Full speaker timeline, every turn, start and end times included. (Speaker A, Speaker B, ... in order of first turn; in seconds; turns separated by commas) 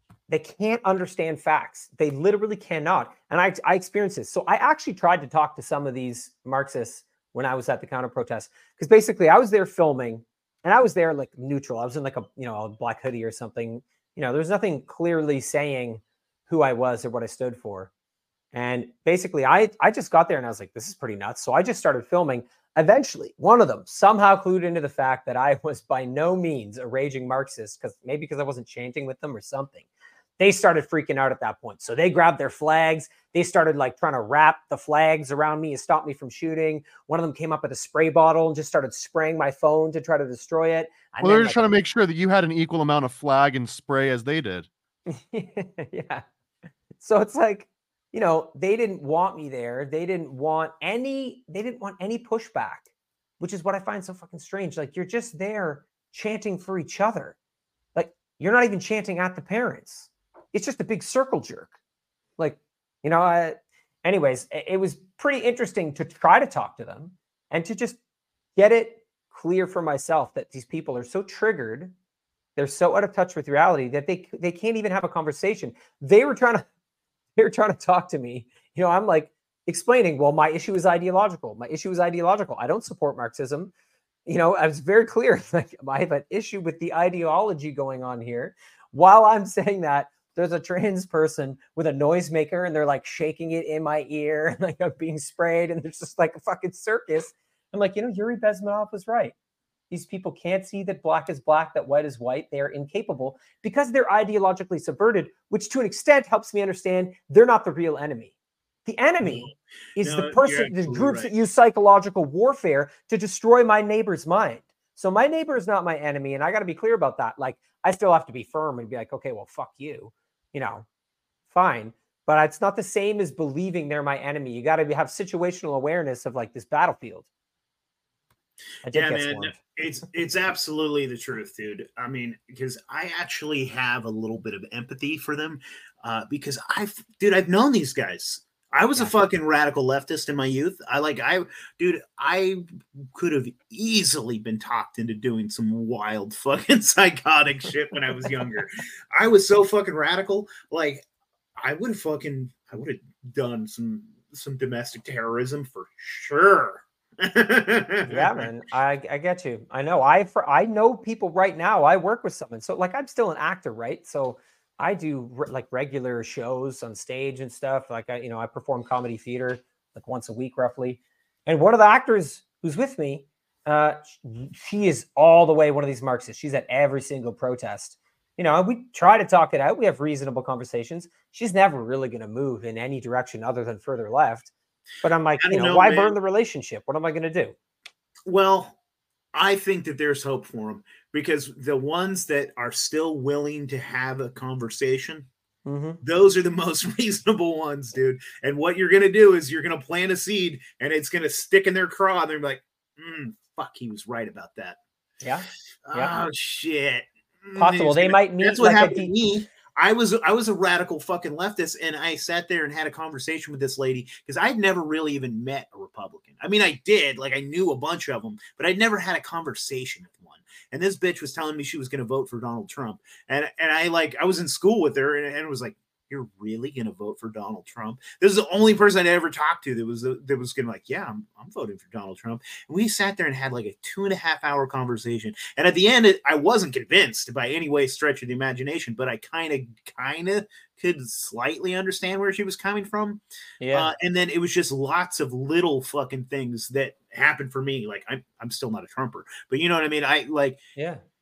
Speaker A: 0.3-17.9, Speaker A: 18.5-29.8, Speaker A: 30.4-41.7, Speaker B: 41.2-44.7, Speaker A: 45.1-46.2, Speaker A: 47.0-52.9, Speaker A: 53.4-57.4, Speaker A: 58.0-61.7, Speaker A: 62.4-68.0, Speaker A: 68.6-71.9, Speaker A: 72.6-76.7, Speaker A: 77.4-83.7, Speaker A: 84.3-99.3, Speaker A: 99.9-108.3, Speaker A: 108.9-120.9, Speaker C: 109.2-111.3, Speaker A: 121.5-127.3, Speaker A: 128.8-129.6, Speaker C: 128.9-142.6, Speaker C: 143.2-151.0, Speaker C: 151.6-158.5, Speaker A: 158.1-184.5, Speaker A: 185.0-187.5, Speaker C: 185.4-186.2, Speaker C: 188.3-188.8, Speaker C: 189.3-195.3, Speaker A: 195.7-196.0, Speaker C: 196.0-204.8, Speaker A: 205.2-206.2, Speaker C: 205.9-250.6, Speaker A: 207.6-209.1, Speaker A: 243.6-243.9, Speaker A: 250.8-251.0